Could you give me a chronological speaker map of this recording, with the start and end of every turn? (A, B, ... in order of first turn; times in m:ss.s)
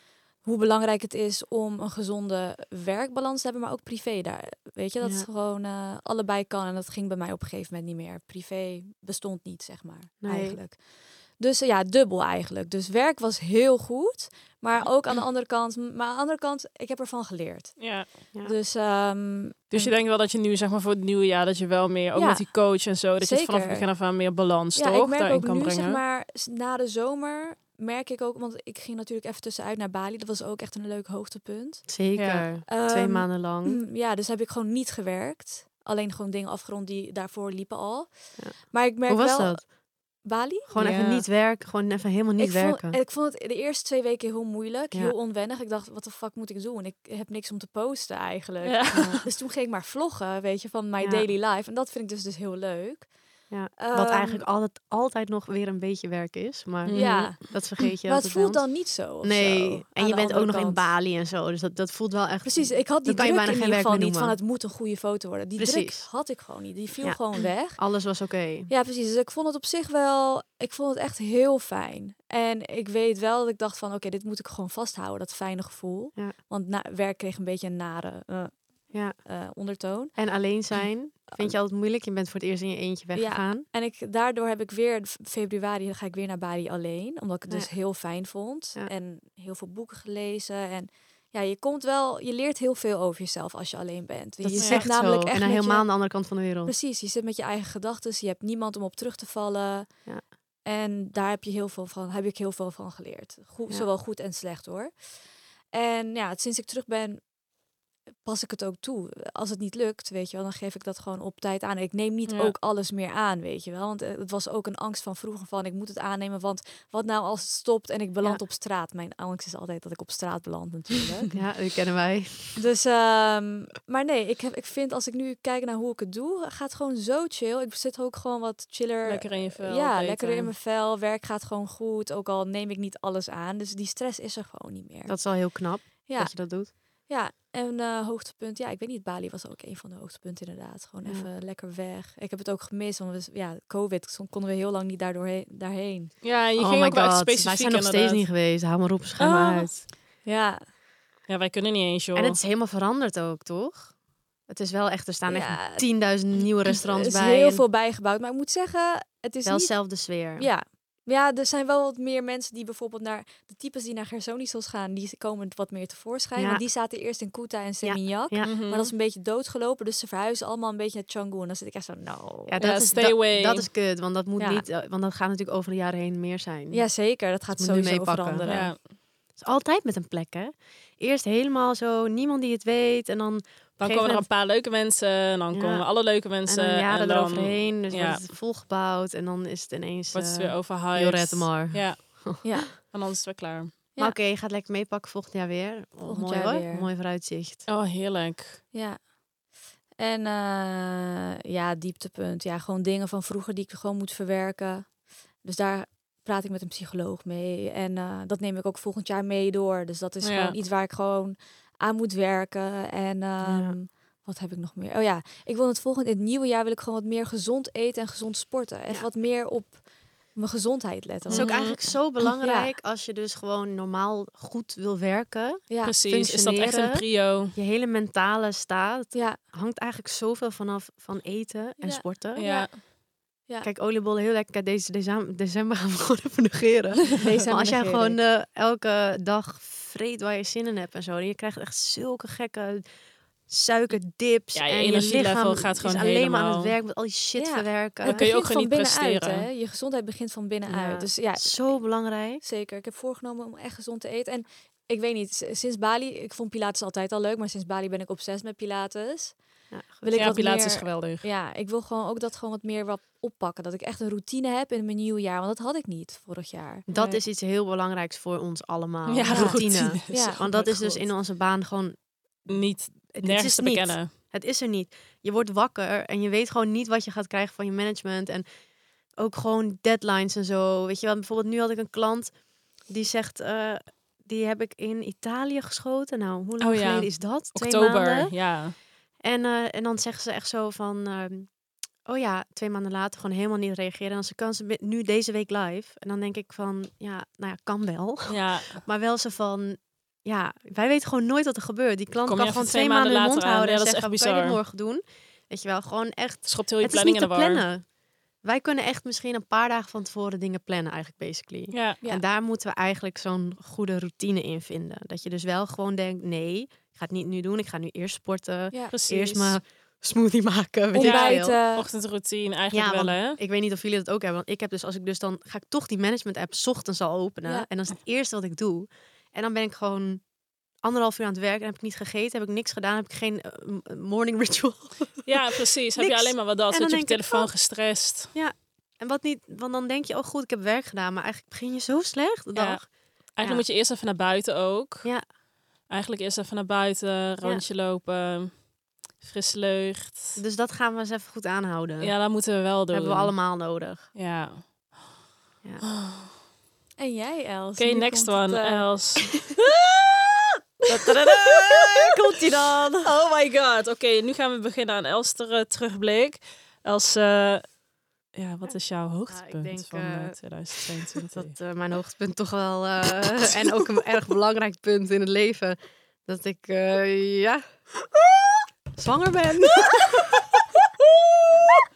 0:00.4-0:19.9 A
0:05.0-0:05.3 B
0:10.2-0:10.6 B
0:17.8-0:18.1 C
0:19.7-0:26.0 C
0:22.1-0:24.1 A
0:24.7-0:31.9 A
0:31.9-0:33.8 B
0:32.1-0:32.4 C
0:32.7-0:40.8 A
0:38.4-0:39.7 B
0:40.7-0:43.0 B
0:40.8-0:41.2 C
0:42.4-0:54.4 A
0:48.6-0:49.2 C
0:51.0-0:51.3 B
0:53.5-1:04.4 B
0:56.8-0:57.4 C
0:56.9-1:00.9 A
1:02.4-1:07.8 A
1:05.6-1:06.1 B
1:07.0-1:08.7 B
1:08.7-1:20.2 A
1:18.9-1:19.2 B
1:20.1-1:23.7 B
1:23.1-1:47.4 A
1:34.4-1:36.7 B
1:34.6-1:34.8 C
1:48.2-2:01.3 A
1:52.3-1:52.5 C
2:01.3-2:02.6 B
2:02.6-2:26.1 A
2:09.0-2:10.5 C
2:15.0-2:16.7 B
2:26.2-2:28.2 C
2:26.6-2:29.8 B
2:29.2-2:29.7 C
2:30.2-2:30.7 A
2:31.3-2:32.4 C
2:32.1-2:34.0 B
2:34.5-2:37.6 B
2:35.3-2:35.9 A
2:36.6-2:52.6 A
2:39.4-2:40.5 B
2:46.4-2:46.6 B
2:47.8-2:48.5 B
2:48.4-2:48.9 C
2:52.5-2:56.9 B
2:52.6-2:53.7 C
2:54.4-2:54.6 A
2:56.7-2:58.7 A
2:57.5-2:58.8 B
2:58.4-2:58.8 C
2:59.3-3:04.3 B
3:03.8-3:08.2 C
3:05.5-3:12.6 B
3:10.1-3:13.7 C
3:12.4-3:12.7 A
3:14.0-3:17.6 B
3:16.0-3:16.9 A
3:17.7-3:18.6 C
3:18.7-3:19.1 A
3:19.9-3:41.6 A
3:30.2-3:30.6 C
3:33.4-3:33.8 B
3:41.3-3:42.0 C
3:41.3-3:52.7 B
3:42.4-3:42.7 A
3:45.7-3:45.9 A
3:45.8-3:47.5 C
3:49.1-3:49.4 A
3:51.8-3:52.9 A
3:52.3-3:52.8 C
3:53.4-3:53.7 A
3:53.6-4:02.8 B
3:57.2-3:58.2 A
4:03.5-4:08.2 B
4:04.5-4:06.7 C
4:07.4-4:27.2 A
4:08.0-4:09.5 C
4:10.7-4:12.4 B
4:19.7-4:20.4 B
4:20.1-4:21.2 C
4:26.9-4:32.6 B
4:29.1-4:31.1 C
4:29.3-4:30.4 A
4:32.5-4:34.1 C
4:33.1-4:38.4 B
4:39.1-4:48.4 B
4:46.6-4:48.8 C
4:49.2-4:51.5 B
4:52.0-5:07.8 B
4:58.3-4:58.8 C
5:02.2-5:04.6 C
5:06.5-5:07.6 C
5:08.4-5:21.6 B
5:11.7-5:12.0 C
5:18.9-5:19.6 C
5:20.9-5:21.8 A
5:21.0-5:23.4 C
5:22.7-5:30.2 B
5:30.8-5:35.3 B
5:35.2-5:38.3 C
5:36.0-5:37.5 B
5:38.3-5:42.8 B
5:42.5-5:42.8 C
5:43.3-5:45.1 C
5:45.9-5:50.4 C
5:50.4-5:52.2 B
5:52.0-5:53.3 C
5:52.9-5:54.1 B
5:54.1-5:55.0 C
5:55.8-5:56.3 C
5:57.0-5:58.9 A
5:57.8-6:00.3 C
6:00.9-6:02.1 C
6:00.9-6:03.1 A
6:03.0-6:07.7 C
6:08.3-6:11.5 C
6:09.3-6:10.4 B
6:11.3-6:17.6 B
6:19.0-6:20.2 B